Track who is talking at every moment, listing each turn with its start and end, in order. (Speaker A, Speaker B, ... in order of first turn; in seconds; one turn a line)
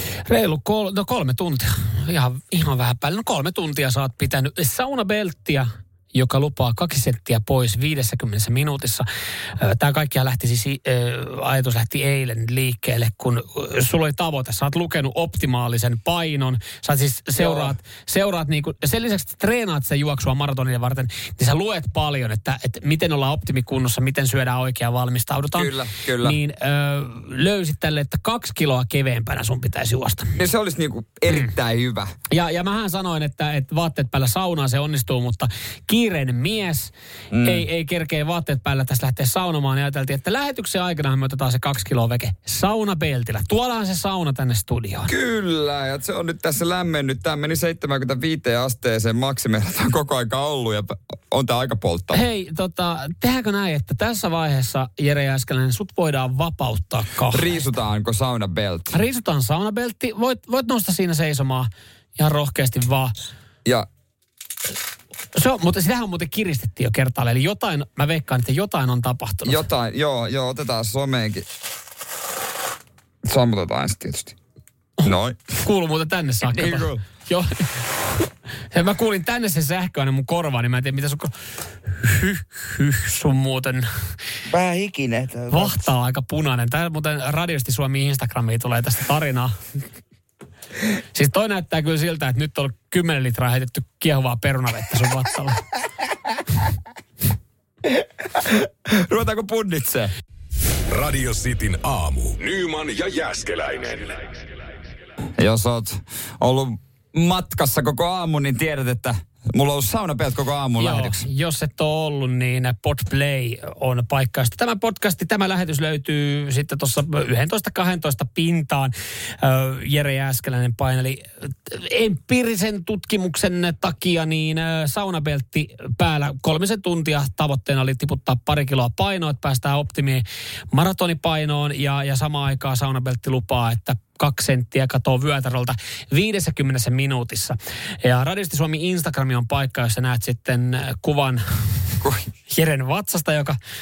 Speaker A: 0.3-30.4
Speaker B: 17.3-17.8
Speaker B: 25.5-26.4
Speaker B: 30.4-32.1
Speaker A: 32.3-45.1
Speaker B: 37.3-37.6
Speaker B: 45.1-52.2
Speaker A: 52.1-57.6
Speaker B: 57.3-59.0
Speaker A: 58.9-63.1
Speaker A: 65.3-69.6
Speaker B: 69.4-71.5
Speaker B: 73.2-74.3
Speaker A: 75.0-81.3
Speaker B: 75.0-75.6
Speaker B: 76.4-77.0
Speaker A: 81.8-83.9
Speaker B: 84.5-85.9
Speaker A: 85.5-89.5
Speaker A: 91.1-95.6
Speaker B: 97.9-100.1
Speaker C: 100.9-104.2
Speaker B: 105.4-111.2
Speaker A: 110.8-142.0
Speaker B: 142.0-142.3
Speaker A: 142.5-143.6